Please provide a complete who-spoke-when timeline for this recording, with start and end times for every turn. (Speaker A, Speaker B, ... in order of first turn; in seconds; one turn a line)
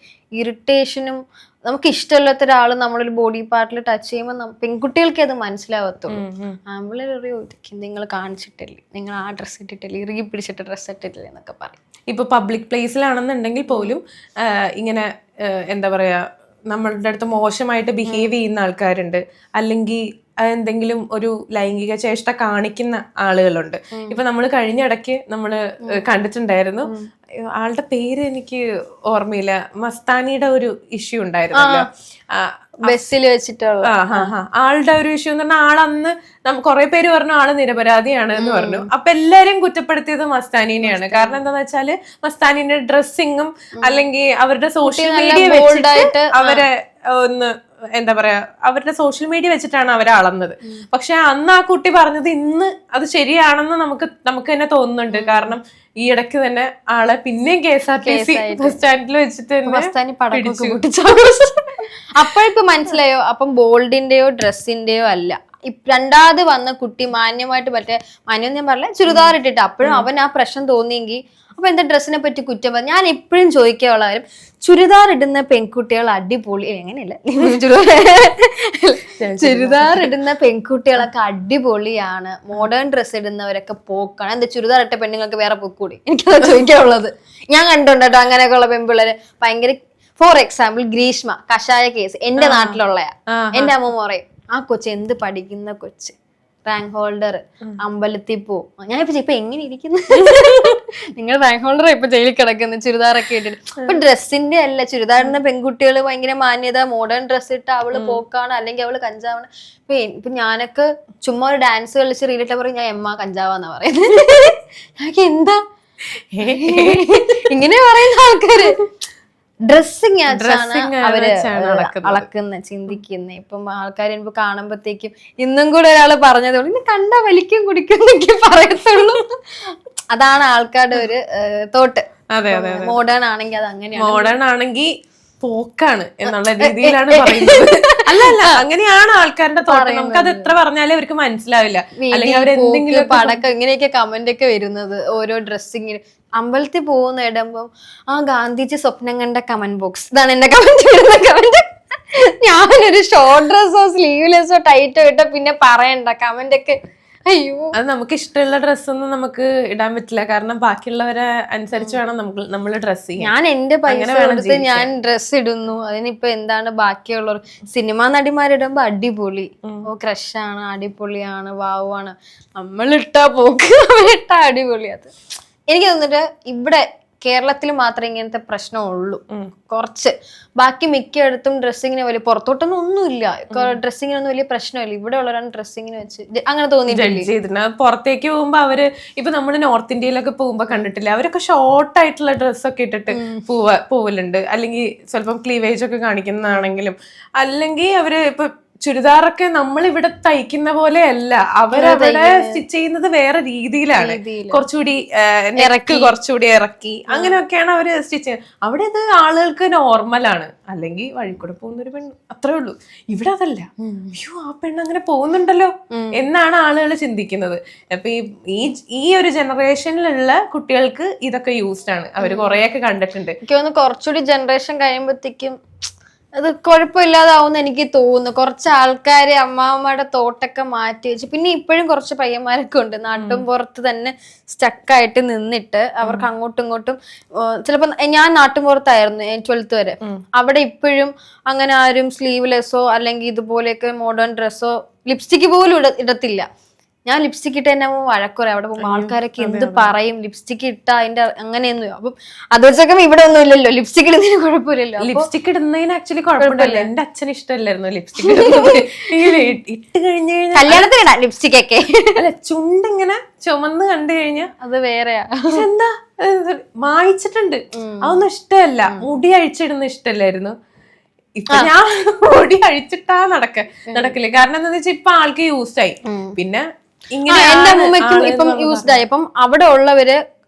Speaker A: 0.4-11.8
Speaker B: 6.1-6.6
Speaker B: 12.1-32.9
Speaker A: 13.7-14.0
Speaker A: 18.1-18.4
Speaker A: 23.9-24.2
Speaker A: 31.6-31.9
Speaker A: 32.9-34.3
Speaker B: 33.9-60.8
Speaker A: 38.4-38.9
Speaker A: 40.8-41.4
Speaker A: 44.8-46.6
Speaker A: 55.1-55.6
Speaker A: 58.0-58.8
Speaker A: 59.7-115.6
Speaker B: 69.8-70.1
Speaker B: 79.2-80.2
Speaker B: 92.4-93.8
Speaker B: 100.2-100.8
Speaker B: 107.9-108.2
Speaker B: 116.3-117.5
Speaker A: 116.4-118.8
Speaker A: 119.7-134.3
Speaker B: 120.3-122.3
Speaker B: 132.3-133.0
Speaker B: 134.0-134.9
Speaker B: 135.4-143.4
Speaker A: 136.3-138.6
Speaker A: 139.7-140.5
Speaker A: 142.0-157.7
Speaker B: 157.7-163.3
Speaker A: 163.2-175.1
Speaker B: 163.9-164.9
Speaker A: 175.7-187.3
Speaker B: 183.5-183.8
Speaker B: 186.9-223.4
Speaker A: 193.1-193.4
Speaker A: 196.5-196.7
Speaker A: 201.7-202.6
Speaker A: 203.9-204.7
Speaker A: 205.6-206.2
Speaker A: 207.1-207.4
Speaker A: 213.8-214.2
Speaker A: 215.9-216.2
Speaker A: 222.2-222.6
Speaker A: 223.4-225.6
Speaker A: 226.3-246.5
Speaker B: 233.2-233.4
Speaker A: 247.1-255.3
Speaker B: 248.8-249.9
Speaker B: 255.0-260.9
Speaker A: 256.4-256.9
Speaker A: 258.2-259.6
Speaker A: 260.6-262.2
Speaker B: 262.2-264.5
Speaker A: 264.6-265.6
Speaker B: 265.5-270.6
Speaker A: 267.7-268.2
Speaker B: 271.4-279.0
Speaker A: 273.9-274.1
Speaker A: 276.1-276.4
Speaker A: 277.3-280.2